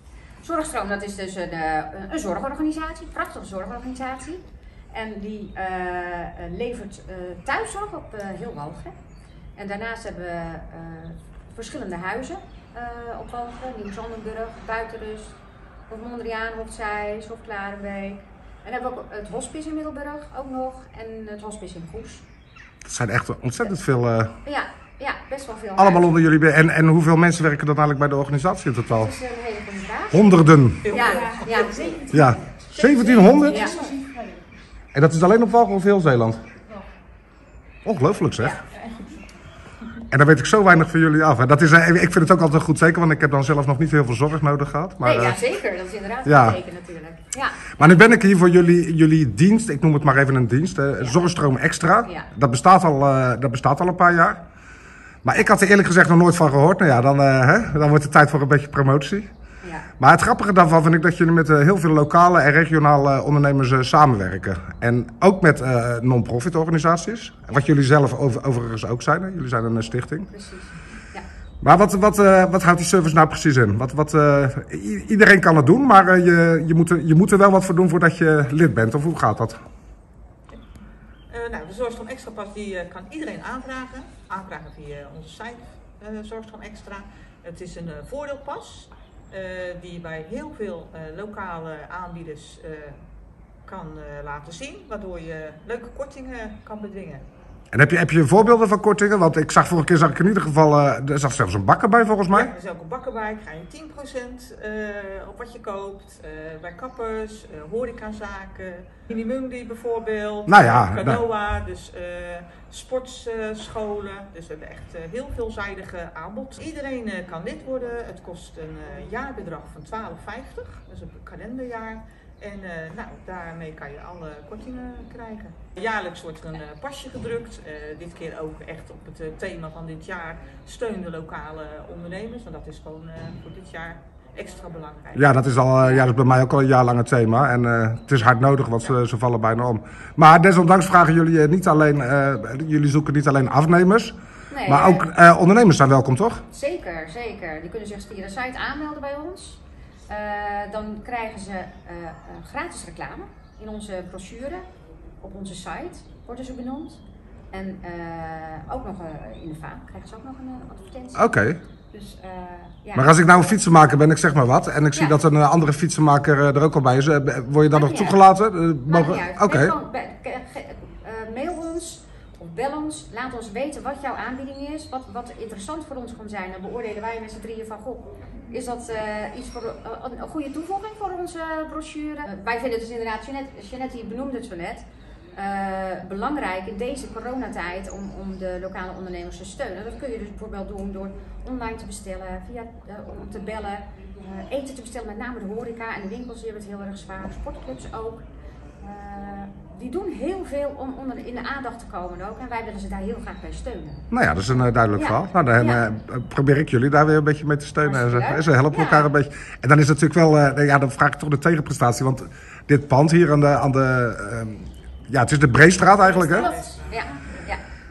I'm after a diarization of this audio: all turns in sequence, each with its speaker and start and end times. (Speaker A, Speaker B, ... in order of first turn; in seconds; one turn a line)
Speaker A: 0.4-8.9
Speaker A: 9.6-15.4
Speaker A: 15.9-22.2
Speaker B: 22.8-24.4
Speaker A: 24.4-26.2
Speaker B: 25.8-29.1
Speaker A: 28.9-32.0
Speaker B: 30.1-30.9
Speaker C: 30.8-32.1
Speaker B: 32.1-33.8
Speaker C: 32.7-34.2
Speaker A: 33.5-34.0
Speaker B: 34.9-36.4
Speaker B: 37.8-38.6
Speaker B: 40.1-45.4
Speaker A: 45.0-48.0
Speaker B: 46.2-46.6
Speaker B: 47.7-54.4
Speaker A: 52.0-52.3
Speaker B: 55.2-59.3
Speaker A: 59.6-59.9
Speaker B: 60.0-70.3
Speaker A: 70.3-71.2
Speaker B: 71.6-79.6
Speaker C: 81.3-93.0
Speaker C: 93.6-97.3
Speaker B: 97.7-102.5
Speaker C: 102.3-135.3
Speaker B: 110.5-111.2
Speaker B: 135.1-146.4
Speaker A: 144.5-145.1
Speaker A: 146.5-154.6
Speaker A: 155.2-161.3
Speaker B: 161.1-161.6
Speaker A: 161.9-163.2
Speaker B: 162.9-169.7
Speaker A: 164.9-165.2
Speaker A: 167.7-168.2
Speaker A: 168.8-198.2
Speaker A: 198.8-204.1
Speaker B: 204.1-216.5
Speaker A: 204.9-205.8
Speaker A: 207.8-209.1
Speaker C: 216.0-217.1
Speaker A: 216.3-217.6